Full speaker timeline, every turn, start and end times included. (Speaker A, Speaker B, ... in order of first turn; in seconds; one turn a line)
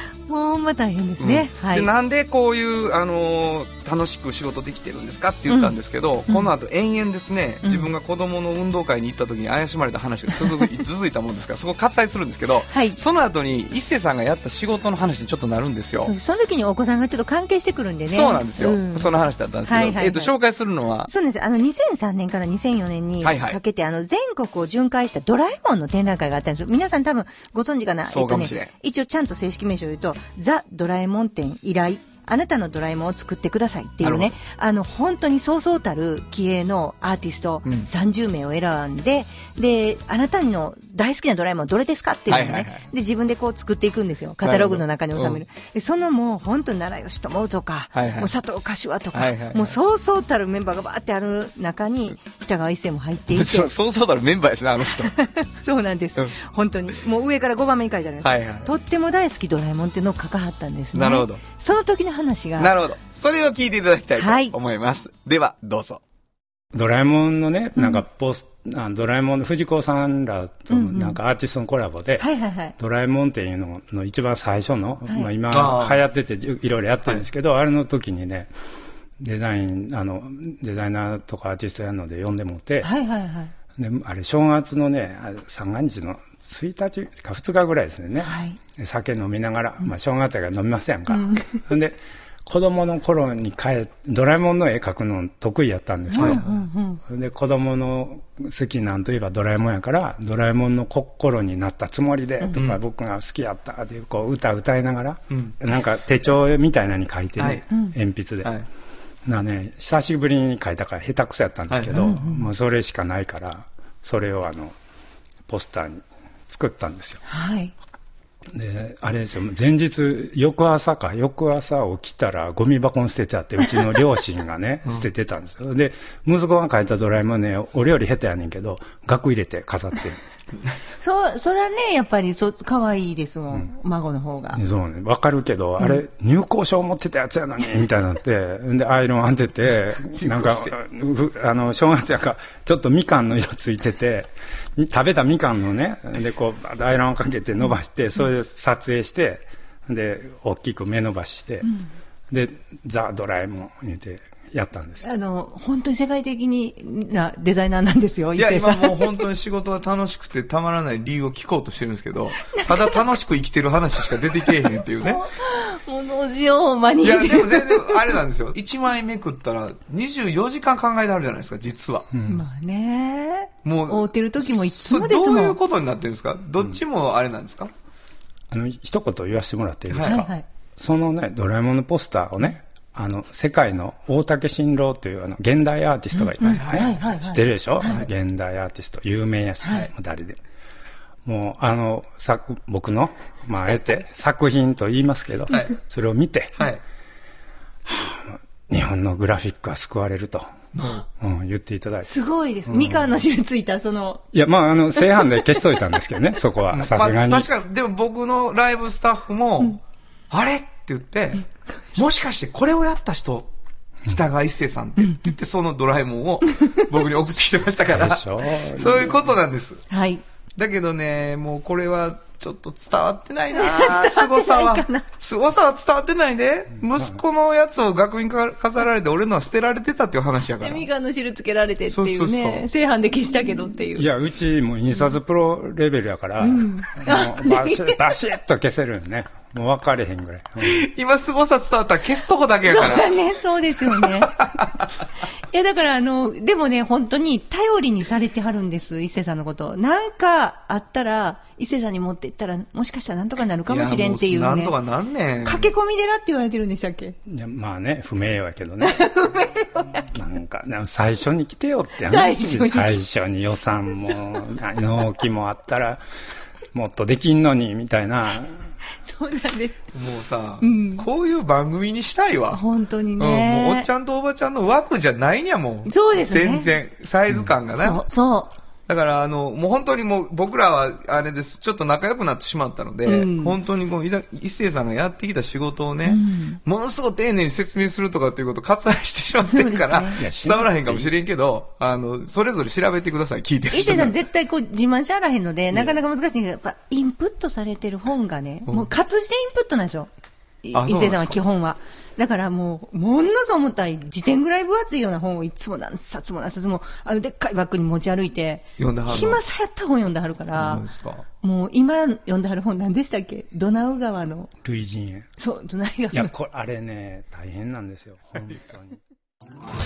Speaker A: 0.3-1.9
Speaker B: 1.2-16.1
Speaker A: 5.5-5.7
Speaker A: 7.6-7.9
Speaker A: 12.7-13.0
Speaker A: 16.0-20.3
Speaker B: 18.1-21.1
Speaker A: 21.1-53.7
Speaker B: 23.2-23.6
Speaker B: 28.1-28.7
Speaker B: 34.0-34.4
Speaker B: 42.3-42.9
Speaker B: 44.4-45.4
Speaker B: 47.9-48.3
Speaker B: 49.1-49.8
Speaker B: 53.3-55.1
Speaker A: 55.0-62.7
Speaker B: 58.2-58.7
Speaker B: 60.9-61.4
Speaker B: 62.6-66.0
Speaker A: 64.2-64.5
Speaker C: 66.7-78.5
Speaker A: 67.8-68.0
Speaker A: 70.7-71.2
Speaker A: 72.2-72.7
Speaker B: 75.5-76.0
Speaker C: 79.2-82.9
Speaker A: 82.8-83.5
Speaker C: 83.8-96.5
Speaker A: 88.2-88.6
Speaker A: 91.1-91.6
Speaker A: 96.1-97.0
Speaker B: 96.2-96.4
Speaker C: 97.1-108.5
Speaker B: 107.4-107.6
Speaker C: 109.2-114.7
Speaker B: 111.7-112.0
Speaker A: 111.9-112.5
Speaker C: 115.5-117.2
Speaker A: 117.3-117.7
Speaker C: 118.5-130.3
Speaker A: 131.0-134.6
Speaker C: 134.5-151.7
Speaker B: 140.2-140.7
Speaker C: 152.3-155.0
Speaker A: 155.0-159.2
Speaker B: 158.3-165.2
Speaker A: 162.5-163.0
Speaker A: 165.0-168.2
Speaker B: 167.0-172.1
Speaker C: 172.1-172.4
Speaker A: 172.2-175.6
Speaker B: 173.6-177.7
Speaker C: 178.5-190.4
Speaker B: 179.9-180.2
Speaker A: 180.0-180.4
Speaker A: 186.2-188.0
Speaker B: 186.4-186.9
Speaker A: 189.6-189.9
Speaker C: 191.2-196.7
Speaker B: 195.5-195.7
Speaker C: 197.8-200.5
Speaker B: 200.7-201.0
Speaker C: 201.2-203.2
Speaker A: 202.0-204.2
Speaker C: 204.3-207.5
Speaker B: 206.7-213.5
Speaker B: 214.1-219.8
Speaker C: 217.9-219.2
Speaker A: 219.9-220.2
Speaker B: 220.6-230.9
Speaker A: 223.5-225.1
Speaker A: 230.6-234.1
Speaker B: 231.8-232.7
Speaker C: 233.9-240.8
Speaker A: 236.4-238.1
Speaker B: 240.6-243.1
Speaker A: 242.6-244.7
Speaker B: 244.0-244.7
Speaker A: 245.5-254.7
Speaker B: 253.7-255.7
Speaker A: 255.4-257.1
Speaker C: 257.3-259.1
Speaker A: 258.8-260.1
Speaker C: 260.0-266.0
Speaker A: 262.0-263.0
Speaker C: 266.7-268.6
Speaker A: 269.0-269.8
Speaker B: 269.9-272.6
Speaker A: 270.6-271.1
Speaker A: 272.5-273.9
Speaker B: 273.2-278.0
Speaker A: 275.9-276.7
Speaker A: 277.7-278.5
Speaker B: 278.9-294.2
Speaker A: 283.0-283.6
Speaker A: 286.0-286.6
Speaker A: 289.4-290.2
Speaker C: 290.1-291.1
Speaker A: 293.7-300.1
Speaker A: 300.6-310.8
Speaker B: 300.7-301.4
Speaker B: 308.8-309.4
Speaker B: 310.5-311.2
Speaker A: 311.4-314.5
Speaker C: 314.6-315.3
Speaker A: 315.4-316.3
Speaker C: 316.1-319.0